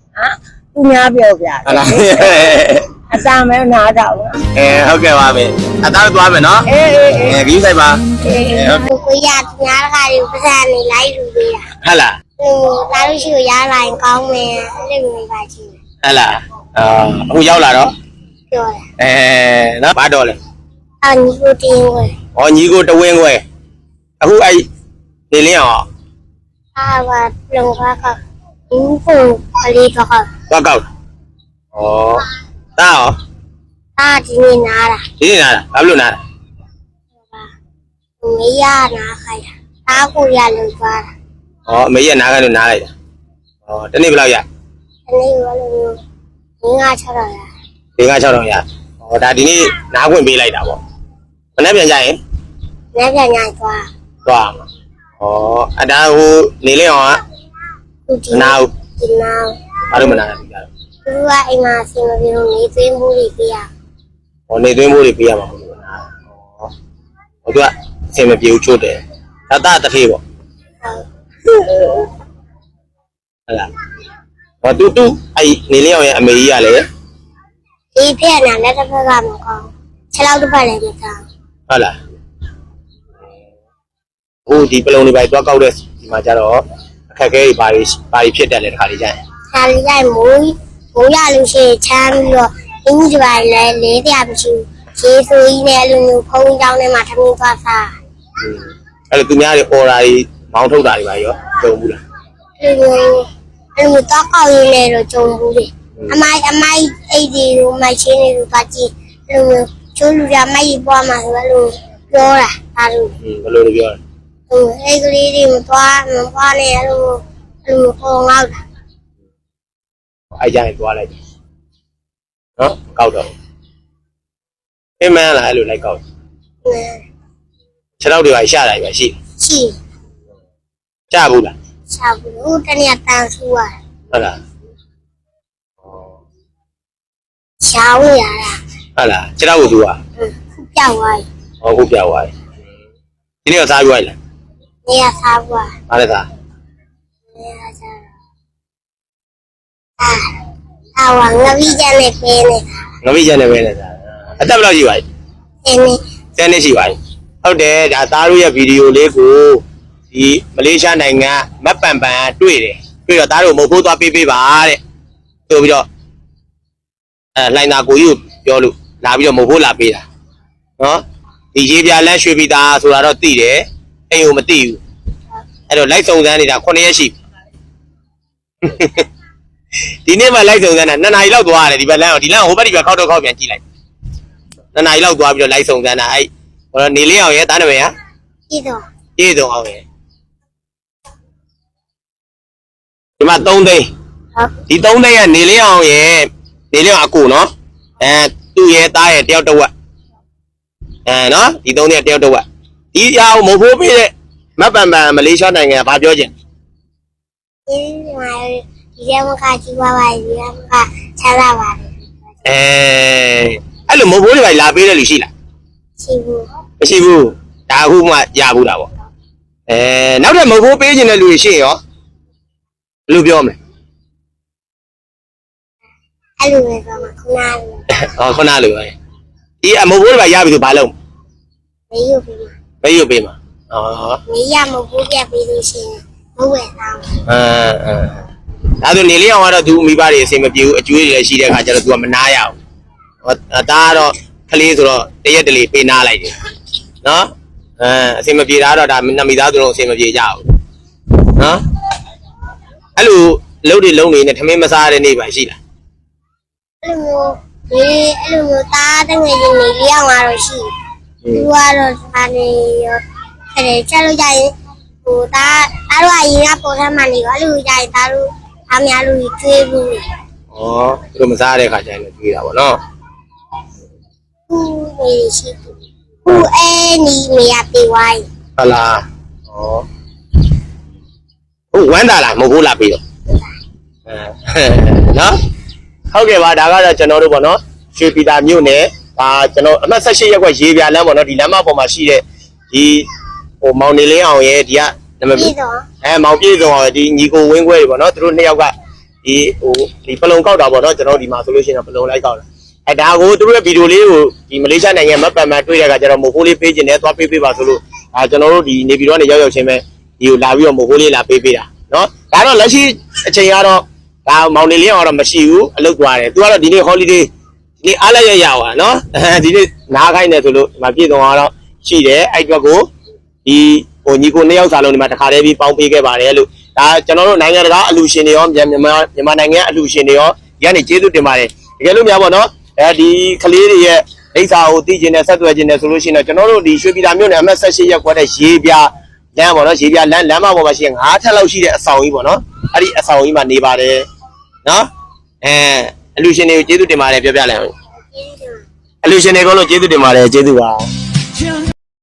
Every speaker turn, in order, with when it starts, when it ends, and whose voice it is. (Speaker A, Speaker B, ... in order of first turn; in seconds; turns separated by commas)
Speaker A: 0.1-2.5, Speaker B: 1.6-2.9, Speaker A: 3.1-4.4, Speaker B: 4.5-6.7, Speaker A: 6.7-7.4, Speaker B: 7.2-8.0, Speaker A: 8.3-8.7, Speaker B: 8.5-8.8, Speaker C: 8.8-11.6, Speaker B: 11.8-12.2, Speaker C: 12.4-15.8, Speaker B: 16.0-17.9, Speaker C: 18.5-18.8, Speaker B: 19.0-20.4, Speaker C: 21.0-22.1, Speaker B: 22.4-23.4, Speaker B: 24.2-24.6, Speaker B: 25.3-25.9, Speaker C: 26.8-28.2, Speaker C: 28.7-30.3, Speaker B: 30.5-30.8, Speaker B: 31.7-32.2, Speaker B: 32.8-33.2, Speaker C: 34.0-35.0, Speaker B: 35.2-36.2, Speaker C: 38.2-41.1, Speaker B: 41.6-42.9, Speaker B: 43.6-44.4, Speaker C: 45.1-46.0, Speaker C: 46.6-47.5, Speaker B: 48.0-50.8, Speaker B: 51.6-52.2, Speaker C: 52.9-53.9, Speaker B: 54.2-54.6, Speaker B: 55.2-57.2, Speaker C: 58.1-59.5, Speaker B: 58.3-58.7, Speaker B: 59.9-60.6, Speaker C: 61.0-63.7, Speaker B: 64.5-66.7, Speaker B: 67.4-70.2, Speaker C: 70.8-72.0, Speaker B: 74.6-76.8, Speaker C: 78.0-81.2, Speaker B: 81.7-81.9, Speaker B: 84.5-89.2, Speaker C: 89.5-97.9, Speaker B: 98.4-102.0, Speaker C: 102.6-113.1, Speaker B: 113.2-114.0, Speaker C: 114.5-118.6, Speaker B: 120.4-121.2, Speaker B: 122.6-123.3, Speaker B: 125.0-126.0, Speaker C: 126.6-127.0, Speaker B: 128.0-129.2, Speaker C: 129.4-129.8, Speaker B: 131.1-131.5, Speaker C: 131.9-133.7, Speaker B: 134.1-134.4, Speaker C: 137.6-138.6, Speaker B: 139.0-140.0, Speaker C: 140.2-141.2, Speaker B: 141.6-142.3, Speaker B: 143.4-144.1, Speaker C: 144.8-145.7, Speaker B: 145.9-146.3, Speaker C: 147.3-148.1, Speaker C: 151.0-152.6, Speaker B: 153.0-155.0, Speaker C: 155.7-156.0, Speaker B: 156.3-164.8, Speaker B: 165.5-165.9, Speaker B: 167.3-170.0, Speaker B: 171.5-174.8, Speaker B: 175.7-177.1, Speaker B: 178.6-179.0, Speaker B: 180.1-183.6, Speaker B: 184.7-187.9, Speaker C: 188.5-188.8, Speaker B: 189.2-189.8, Speaker B: 193.2-193.9, Speaker B: 194.7-199.7, Speaker B: 201.1-206.3, Speaker C: 207.7-211.9, Speaker B: 212.4-215.3, Speaker C: 216.0-216.4, Speaker B: 216.8-218.9, Speaker B: 219.7-221.8, Speaker B: 223.1-223.6, Speaker C: 226.4-227.8, Speaker B: 228.0-228.9, Speaker B: 229.6-230.9, Speaker C: 231.9-232.5, Speaker B: 232.8-234.2, Speaker C: 234.3-237.1, Speaker B: 237.3-238.2, Speaker B: 238.8-242.6, Speaker B: 243.2-246.3, Speaker B: 247.0-250.4, Speaker B: 252.9-255.6, Speaker C: 256.8-260.7, Speaker C: 261.3-263.0, Speaker C: 263.5-264.5, Speaker C: 265.0-270.0, Speaker B: 270.5-272.8, Speaker C: 274.5-275.7, Speaker C: 276.2-278.2, Speaker B: 278.6-279.8, Speaker B: 281.7-283.0, Speaker B: 284.1-285.3, Speaker B: 286.1-293.1, Speaker B: 293.6-298.7, Speaker C: 295.3-295.9, Speaker B: 299.2-317.3, Speaker B: 317.8-322.9, Speaker B: 323.4-344.1, Speaker B: 345.4-347.7, Speaker C: 348.1-348.6, Speaker B: 349.0-350.9